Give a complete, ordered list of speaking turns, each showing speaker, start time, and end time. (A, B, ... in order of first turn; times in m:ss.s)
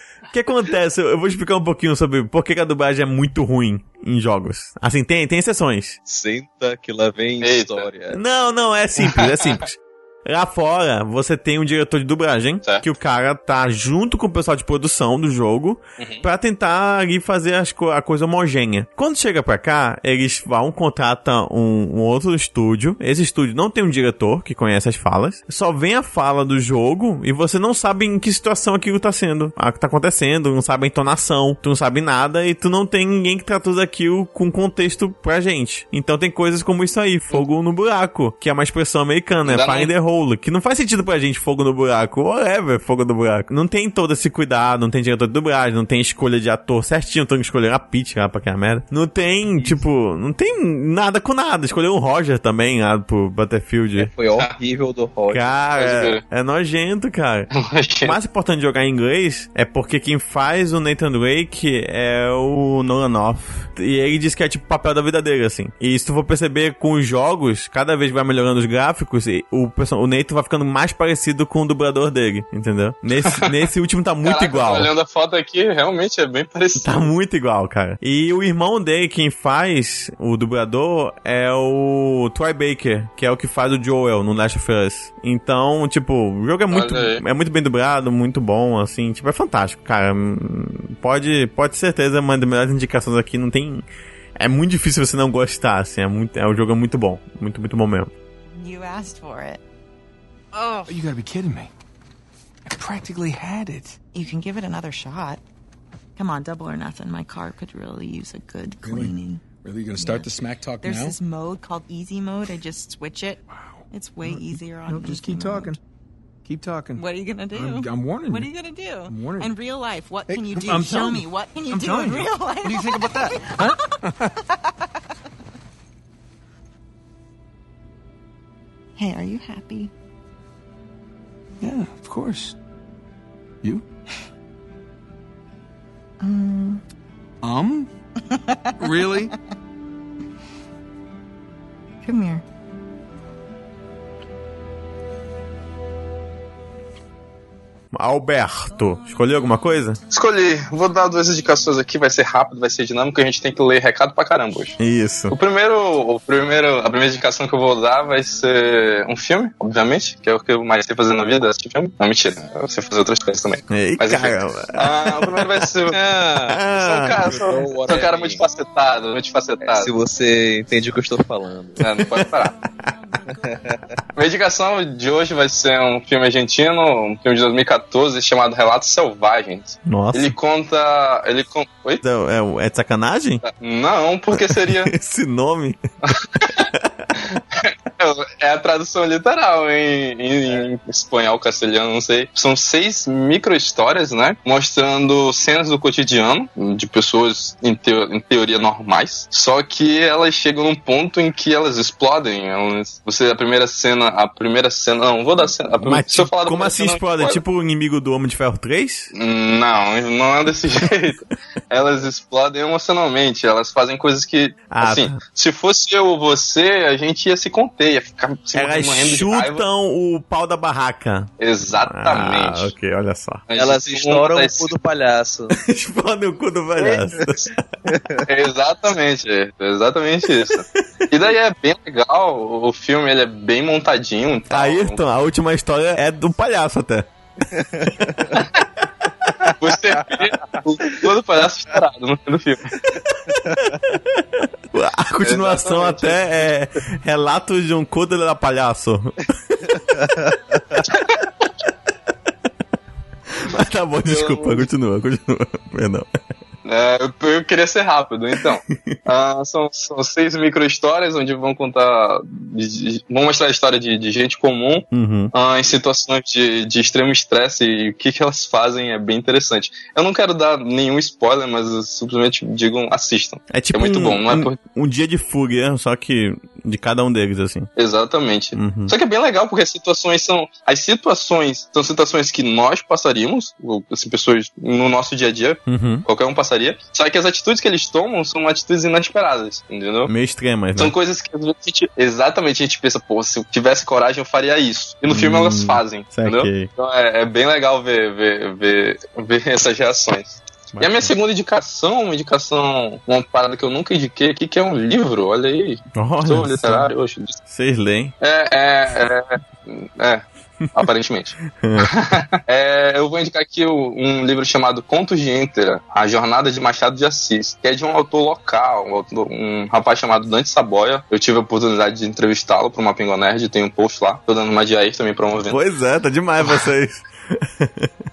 0:00.3-0:06.0 A
0:06.1-0:08.2 B
0:07.4-0:07.9 C
0:08.1-0:54.1 A
0:09.2-0:09.5 C
0:16.0-0:16.2 C
0:39.4-0:39.9 C
0:54.0-0:55.5 B
0:55.3-0:57.5 A
0:55.8-0:56.2 C
0:57.5-0:58.2 C
0:58.0-1:14.9 A
1:13.2-1:13.5 C
1:14.2-1:17.1 C
1:16.8-1:33.8 A
1:26.7-1:27.2 C
1:34.4-1:38.1 A
1:38.5-1:39.6 D
1:40.6-1:41.0 D
1:40.9-1:41.7 E
1:42.7-1:44.0 E
1:44.1-1:45.4 D
1:46.2-1:49.4 D
1:48.8-1:51.2 E
1:49.9-1:55.8 D
1:53.7-1:55.8 E
1:56.4-1:58.5 E
1:57.0-2:04.3 D
1:59.1-1:59.5 E
2:00.3-2:04.3 E
2:09.0-2:09.9 D
2:11.6-2:12.6 E
2:16.2-2:16.8 D
2:17.4-2:17.9 E
2:18.3-2:19.3 D
2:18.8-2:19.3 E
2:22.0-2:22.4 D
2:27.9-2:30.0 A
2:30.1-2:46.0 C
2:34.8-2:35.4 A
2:43.7-2:45.5 A
2:45.9-2:46.6 B
2:46.5-2:47.4 A
2:46.8-2:49.9 C
2:47.2-2:48.4 B
2:49.7-2:51.8 B
2:51.8-2:52.6 C
2:53.4-2:53.8 B
2:54.2-3:02.0 C
2:59.9-3:00.4 A
3:02.0-3:03.4 A
3:03.4-3:04.9 C
3:04.3-3:05.8 A
3:06.1-3:06.6 C
3:06.7-3:07.1 A
3:07.2-3:27.4 C
3:25.8-3:29.1 A
3:29.1-3:39.6 C
3:34.7-3:35.2 A
3:38.5-3:41.3 A
3:41.4-3:42.7 C
3:41.9-3:43.4 A
3:43.5-3:44.7 C
3:43.6-3:45.5 B
3:45.6-3:47.5 A
3:46.8-3:47.4 C
3:47.9-3:48.3 B
3:48.3-3:55.0 C
3:50.5-3:51.2 A
3:54.5-3:57.1 A
3:57.5-3:58.4 B
3:59.6-4:02.8 C
4:03.3-4:03.7 B
4:03.8-4:09.7 A
4:05.2-4:06.5 C
4:09.9-4:10.8 B
4:10.9-4:11.2 C
4:13.4-4:16.1 A
4:14.0-4:14.7 C
4:16.6-4:34.6 C
4:18.7-4:19.0 A
4:24.9-4:25.3 A
4:33.5-4:37.7 A
4:37.8-4:50.1 C
4:38.6-4:39.0 A
4:45.7-4:46.1 A
4:50.1-4:50.9 A
4:50.8-5:07.4 C
4:55.1-4:56.7 A
5:00.7-5:01.1 A
5:06.0-5:06.9 A
5:07.5-5:08.1 A
5:08.2-5:25.6 C
5:11.6-5:11.9 A
5:25.5-5:27.9 A